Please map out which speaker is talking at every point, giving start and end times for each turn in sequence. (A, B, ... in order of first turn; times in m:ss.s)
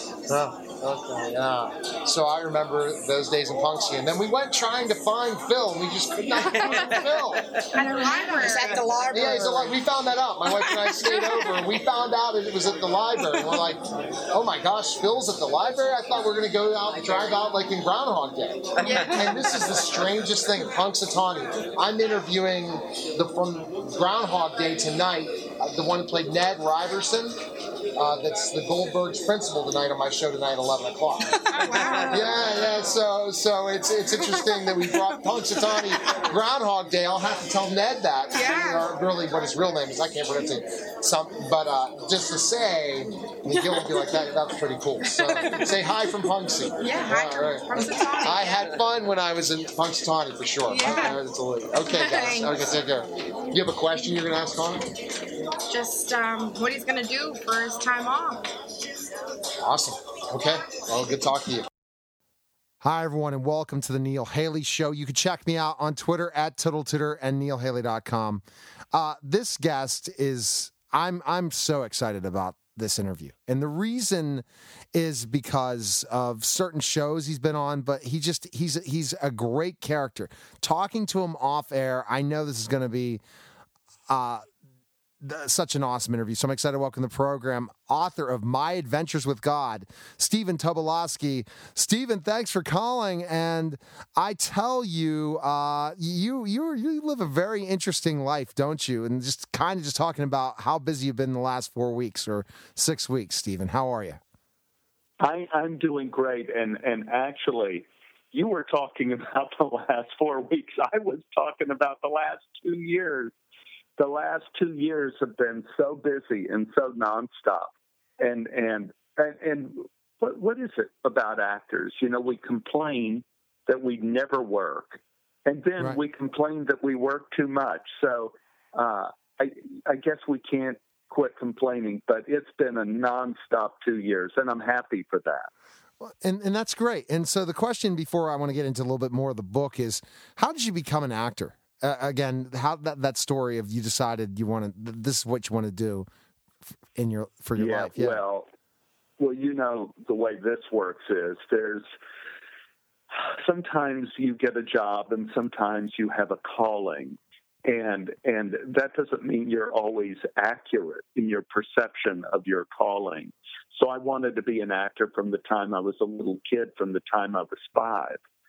0:00.3-0:07.5 A
0:06.6-0:09.6 B
0:07.7-0:08.9 C
0:09.1-0:27.4 A
0:18.8-0:19.5 C
0:18.8-0:19.2 B
0:27.9-0:31.5 A
0:31.5-0:32.5 C
0:32.1-0:47.7 A
0:38.3-0:38.9 C
0:46.8-0:48.8 C
0:48.2-0:54.9 A
0:50.7-0:51.2 C
0:51.8-0:52.8 C
0:55.7-0:58.5 C
0:59.6-1:01.7 A
1:02.8-1:23.2 D
1:24.1-1:24.4 D
1:25.2-1:44.2 D
1:45.2-1:53.3 E
1:54.0-2:15.5 E
2:16.0-2:26.1 D
2:27.0-2:28.2 D
2:27.5-2:28.4 E
2:29.2-2:31.9 E
2:33.1-2:48.2 E